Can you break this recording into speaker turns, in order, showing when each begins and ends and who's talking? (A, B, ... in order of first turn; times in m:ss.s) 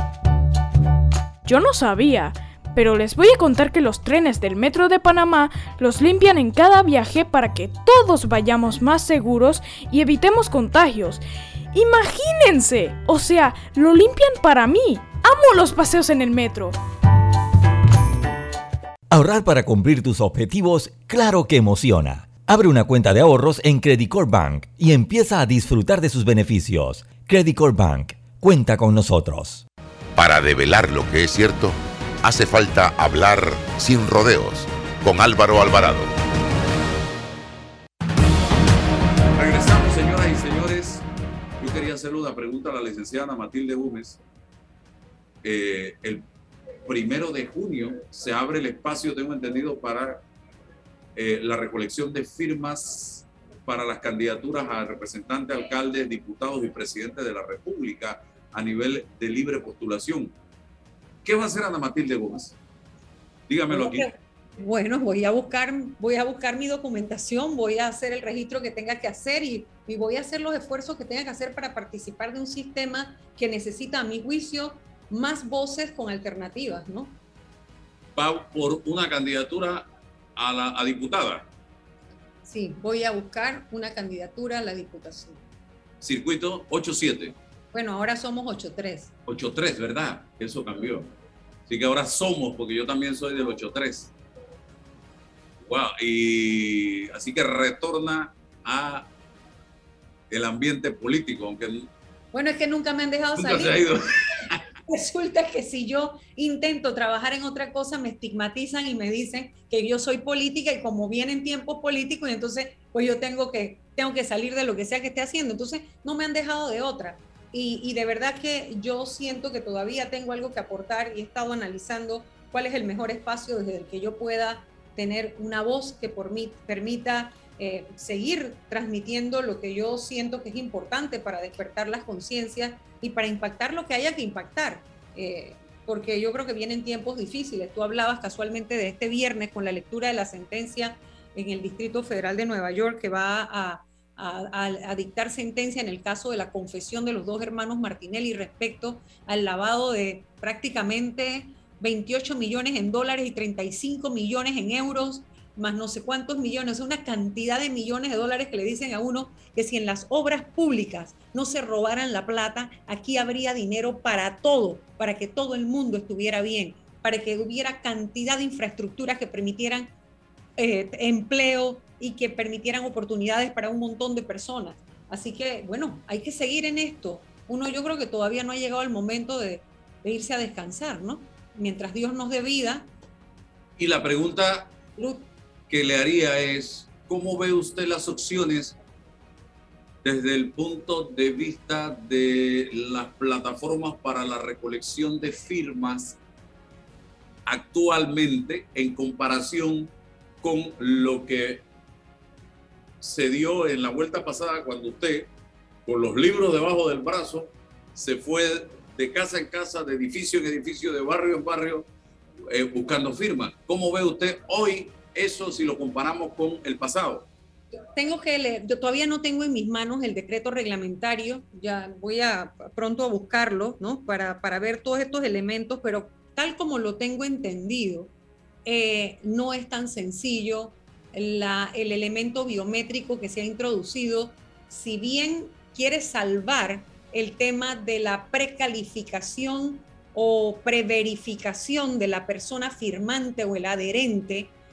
0:01.4-0:16.8 A
0:19.1-0:29.6 B
0:30.2-0:36.1 C
0:39.4-0:41.0 D
0:41.6-0:44.2 D
0:45.4-0:46.2 D
0:46.8-0:50.2 D
0:51.2-1:00.3 D
1:01.2-1:02.6 D
1:03.5-1:04.1 D
1:03.7-1:17.2 E
1:18.2-1:21.5 D
1:22.5-1:25.4 E
1:26.0-1:27.4 D
1:27.7-1:29.1 E
1:29.3-1:31.1 D
1:31.7-1:34.1 D
1:35.7-1:39.1 D
1:40.3-1:41.9 D
1:42.3-1:43.9 E
1:43.4-1:44.6 D
1:44.9-2:49.9 E
2:50.6-3:02.9 E
3:03.8-3:04.7 D
3:05.0-3:05.3 E
3:05.7-3:08.8 D
3:10.0-3:16.2 D
3:17.5-3:19.9 D
3:20.4-3:21.6 D
3:23.0-3:25.3 D
3:25.9-3:31.9 D
3:32.5-3:37.3 D
3:37.9-3:48.1 E
3:48.6-4:04.5 E